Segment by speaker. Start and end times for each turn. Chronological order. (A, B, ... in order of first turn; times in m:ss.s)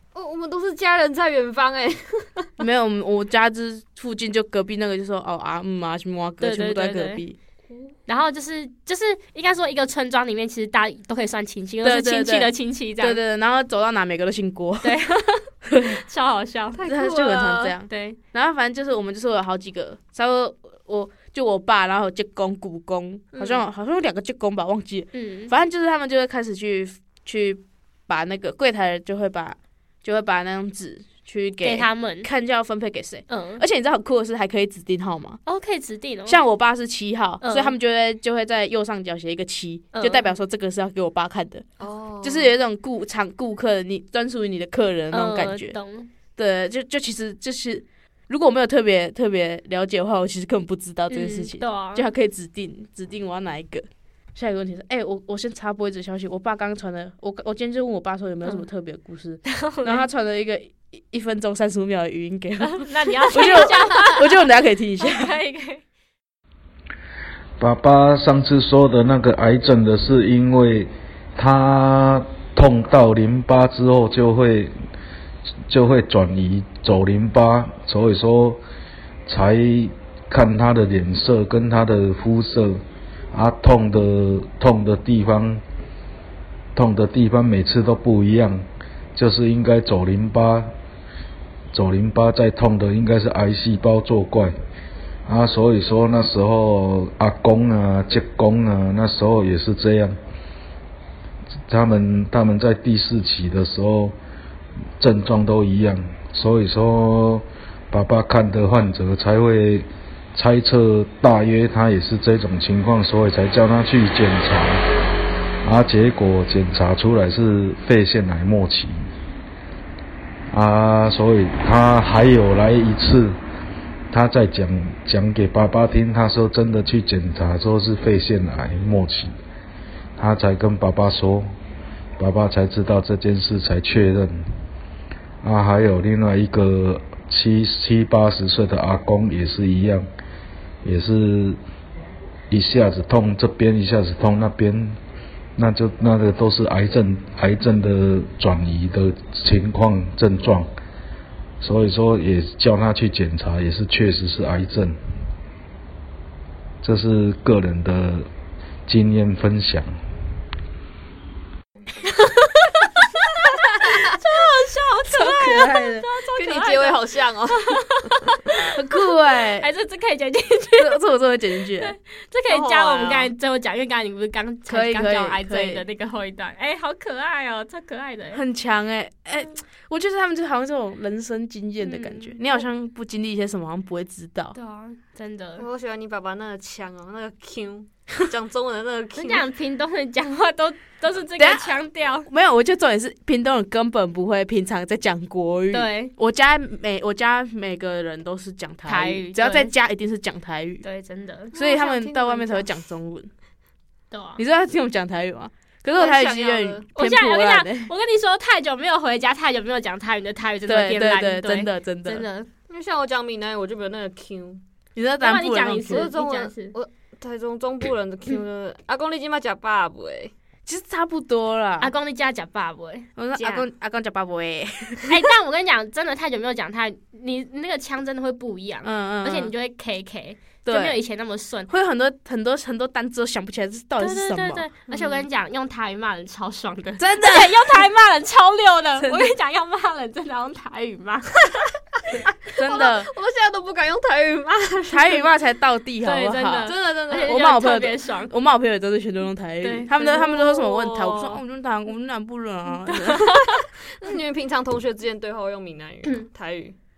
0:00.1-0:02.6 A
0:02.6-0:07.4 B
0:06.4-0:07.2 C
0:07.7-0:08.0 A
0:08.1-0:13.2 C
0:11.8-0:15.0 B
0:14.8-0:16.8 C
0:15.7-0:16.0 B
0:16.7-0:17.8 A
0:16.8-0:35.4 B
0:17.9-0:18.2 C
0:25.1-0:25.5 C
0:31.6-0:32.3 C
0:33.3-0:33.6 C
0:35.5-0:36.4 C
0:36.3-0:41.6 B
0:37.4-0:37.8 C
0:39.9-0:40.3 C
0:41.8-0:42.5 A
0:42.2-0:45.7 B
0:45.1-0:46.1 C
0:46.4-1:05.3 B
0:51.1-0:52.0 C
0:59.5-1:00.0 C
1:02.7-1:04.4 C
1:05.0-1:05.8 C
1:07.6-1:14.7 D
1:15.7-1:18.6 D
1:19.3-1:22.8 D
1:23.3-1:25.6 D
1:26.8-1:30.7 D
1:31.7-1:34.6 D
1:35.3-1:40.2 D
1:41.7-1:44.2 D
1:45.0-1:54.8 D
1:55.6-1:59.1 D
2:00.5-2:03.4 D
2:04.1-2:09.3 D
2:10.2-2:11.5 D
2:12.2-2:14.4 D
2:15.4-2:20.0 D
2:20.8-2:21.6 D
2:22.5-2:25.0 D
2:25.6-2:30.7 D
2:31.6-2:35.0 D
2:36.8-2:38.3 D
2:38.9-2:39.9 D
2:42.0-2:47.0 C
2:45.1-2:46.1 B
2:46.4-2:47.8 A
2:47.5-2:48.7 C
2:48.7-2:49.7 B
2:49.6-2:51.0 C
2:50.8-2:52.0 B
2:51.8-2:58.4 C
2:52.5-2:53.3 A
2:54.7-2:55.8 B
2:58.3-3:04.6 B
3:01.8-3:02.4 C
3:04.5-3:05.6 C
3:05.6-3:09.4 A
3:09.2-3:12.3 C
3:11.4-3:20.8 B
3:15.7-3:16.1 C
3:18.9-3:19.7 C
3:20.8-3:21.5 C
3:21.5-3:22.7 A
3:21.5-3:23.3 B
3:24.1-3:24.4 C
3:24.4-3:27.9 B
3:25.9-3:26.8 A
3:27.0-3:32.5 C
3:30.7-3:32.2 B
3:32.7-3:34.6 A
3:35.0-3:36.1 B
3:35.2-3:36.8 C
3:35.9-3:40.3 A
3:40.7-3:41.9 B
3:41.8-3:43.1 C
3:43.2-3:45.2 B
3:43.4-3:43.7 A
3:45.1-3:51.7 C
3:48.8-3:49.5 B
3:50.6-3:51.0 B
3:51.7-3:54.6 B
3:54.0-4:01.4 C
3:54.9-3:55.2 A
3:57.0-3:57.8 B
3:59.0-3:59.3 B
4:02.6-4:03.1 B
4:02.6-4:05.3 A
4:04.9-4:13.4 B
4:06.0-4:08.3 C
4:06.6-4:07.4 A
4:09.6-4:10.2 C
4:10.0-4:11.4 A
4:13.1-4:13.6 C
4:13.8-4:16.8 A